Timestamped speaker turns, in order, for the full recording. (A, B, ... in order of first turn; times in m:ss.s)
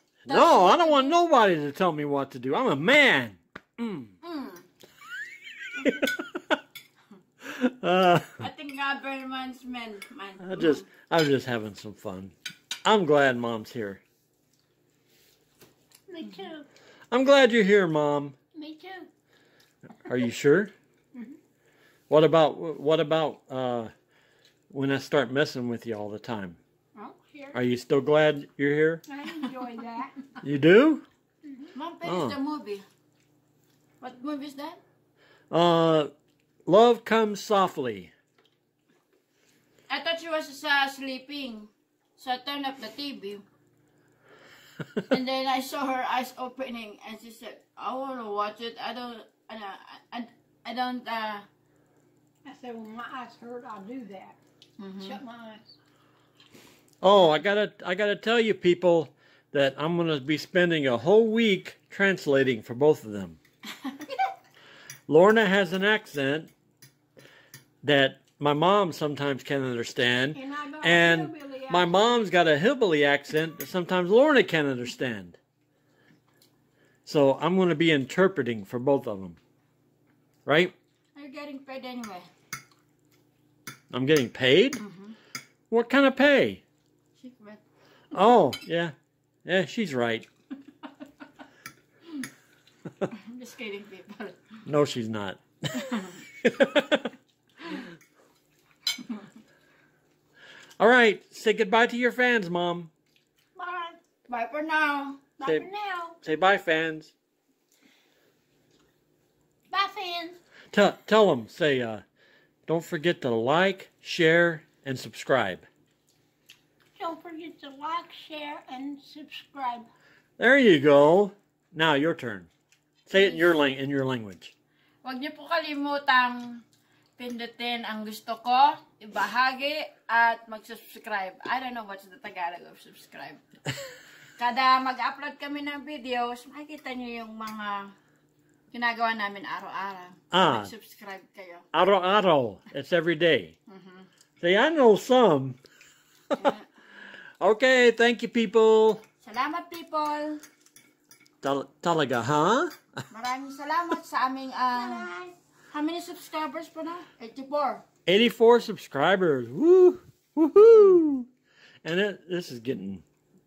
0:00.2-0:01.2 A
0:00.2-0:04.1 B
0:04.2-0:04.6 A
0:05.8-0:06.6 B
0:07.4-0:08.5 B
0:08.4-0:10.9 A
0:10.4-0:14.0 B
0:16.1-0:16.7 C
0:17.1-0:18.4 B
0:18.5-0:19.1 C
0:20.0-0:20.7 B
0:22.1-0:23.9 B
0:24.7-0:26.6 B
0:26.9-0:27.6 C
0:27.5-0:29.0 B
0:29.1-0:30.3 C
0:30.4-0:31.0 B
0:31.4-0:31.7 C
0:31.7-0:32.8 A
0:32.0-0:32.4 B
0:34.0-0:34.8 A
0:35.5-0:36.1 B
0:36.6-0:38.1 B
0:39.9-0:43.4 A
0:45.1-0:51.4 A
0:52.4-0:54.4 C
0:54.8-0:55.2 A
0:55.0-0:55.6 C
0:57.0-1:03.4 B
1:05.1-1:06.5 B
1:07.8-1:15.4 B
1:10.3-1:12.1 C
1:17.0-1:19.4 B
1:20.4-1:20.7 B
1:21.1-1:22.3 A
1:23.9-1:24.8 B
1:24.8-1:25.1 A
1:25.7-1:26.6 B
1:27.2-1:27.6 A
1:28.1-1:30.3 B
1:33.1-1:34.5 A
1:34.6-1:37.1 B
1:40.8-1:42.9 B
1:43.5-1:44.0 C
1:44.3-1:45.2 A
1:45.4-1:46.2 C
1:45.4-1:45.7 B
1:46.2-1:47.1 B
1:49.7-1:50.4 C
1:50.7-1:52.0 B
1:52.7-1:55.7 B
1:57.0-1:59.9 C
2:00.4-2:02.5 B
2:03.1-2:04.5 B
2:05.0-2:06.6 A
2:07.2-2:13.4 A
2:14.4-2:17.9 A
2:18.7-2:21.6 A
2:20.3-2:20.7 B
2:21.7-2:23.6 B
2:23.7-2:24.1 A
2:24.4-2:25.6 B
2:26.4-2:26.7 A
2:27.4-2:29.0 B
2:29.2-2:30.4 A
2:31.4-2:33.0 B
2:33.1-2:35.1 A
2:34.7-2:35.4 C
2:35.7-2:37.8 A
2:38.0-2:41.3 B
2:41.8-2:43.0 B